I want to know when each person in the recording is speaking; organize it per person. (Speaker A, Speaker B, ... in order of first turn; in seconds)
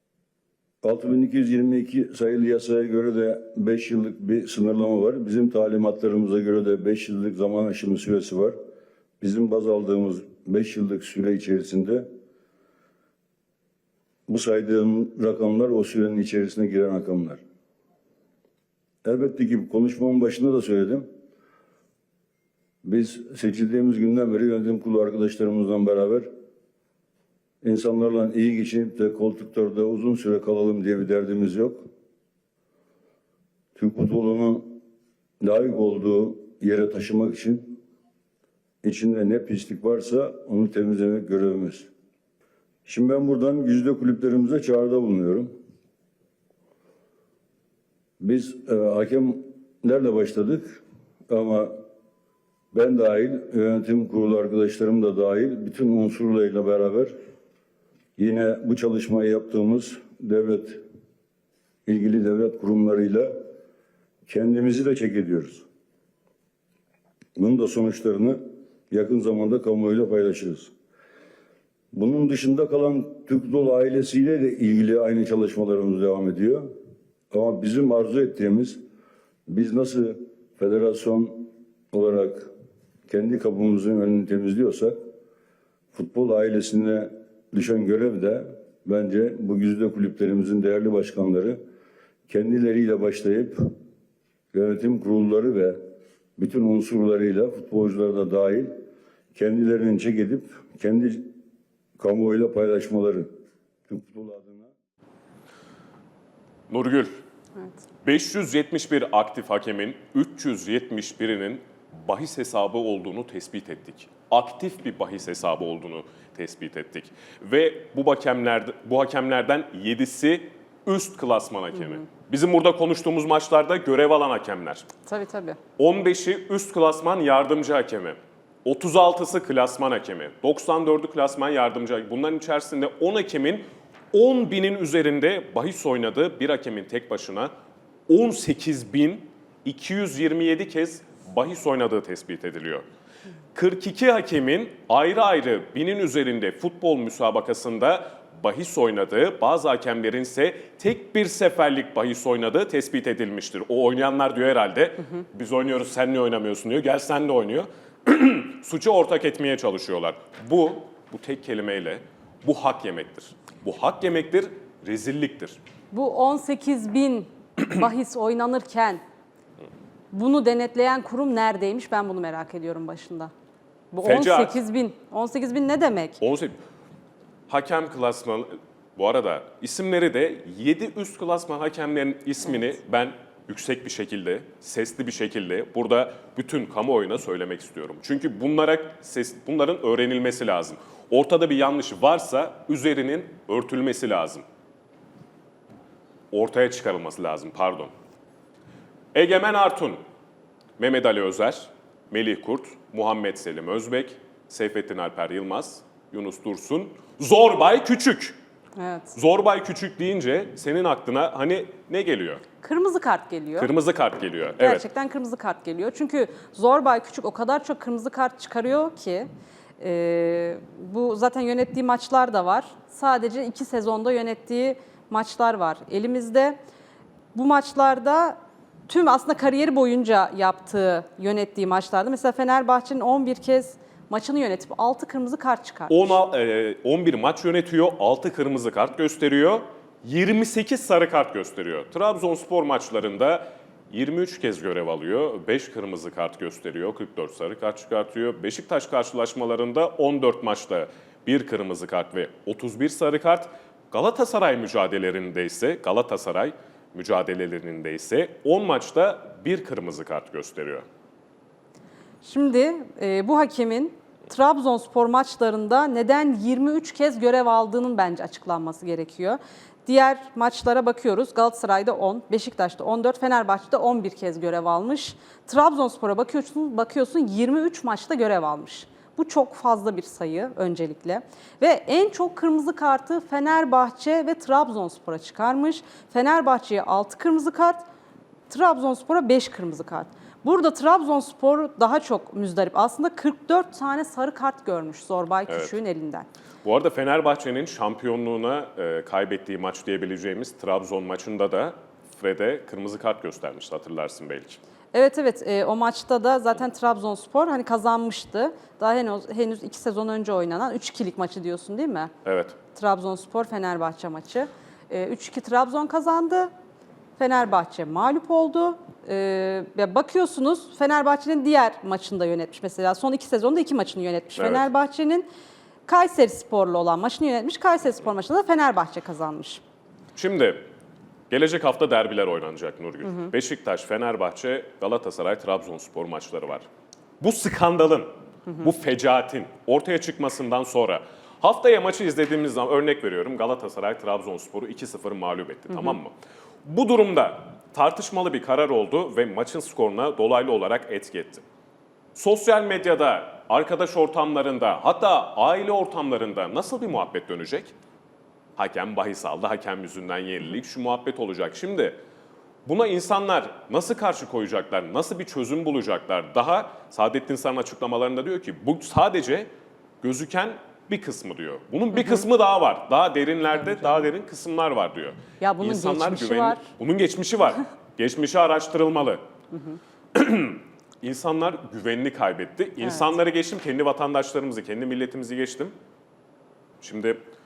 Speaker A: 0.8-8.6, 9.2-12.1, 14.3-17.4, 19.0-21.1, 22.8-26.3, 27.6-31.8, 33.8-34.8, 35.4-37.8, 38.8-41.9, 42.9-45.5, 48.2-51.8, 52.7-57.1, 58.2-60.8, 61.9-63.4, 64.3-65.7, 67.4-70.7, 71.9-76.7, 77.3-78.8, 79.5-82.5, 83.1-85.0, 85.9-91.6, 92.3-93.7, 94.5-95.8, 96.4-98.7, 99.3-101.4, 102.0-103.3, 103.9-104.7
Speaker B: 106.7-107.2, 108.0-124.9, 125.8-137.5, 138.1-142.8, 143.5-165.6, 174.0-174.6, 176.2-176.6, 177.5-194.4, 196.3-197.9, 199.1-200.0, 200.8-208.4, 209.2-212.4, 213.6-214.8, 235.9-260.9, 295.5-295.8, 296.6-304.6, 312.2-312.6, 324.4-324.7, 330.1-330.6, 331.3-336.7, 337.2-346.1, 346.6-351.4, 352.1-357.7, 358.6-362.0, 362.7-369.5, 370.0-379.2, 380.1-385.7, 386.8-387.2
Speaker C: 125.1-125.6, 165.9-169.0, 170.1-173.3, 173.9-176.2, 208.8-209.1, 212.6-213.7, 214.6-219.3, 219.8-226.6, 227.3-228.4, 228.9-236.2, 262.2-287.8, 288.5-296.3, 304.9-312.1, 312.8-316.5, 317.2-325.3, 325.9-329.6, 345.7-346.0, 371.9-372.2, 373.6-374.1, 375.4-376.6, 379.5-379.8, 382.8-383.1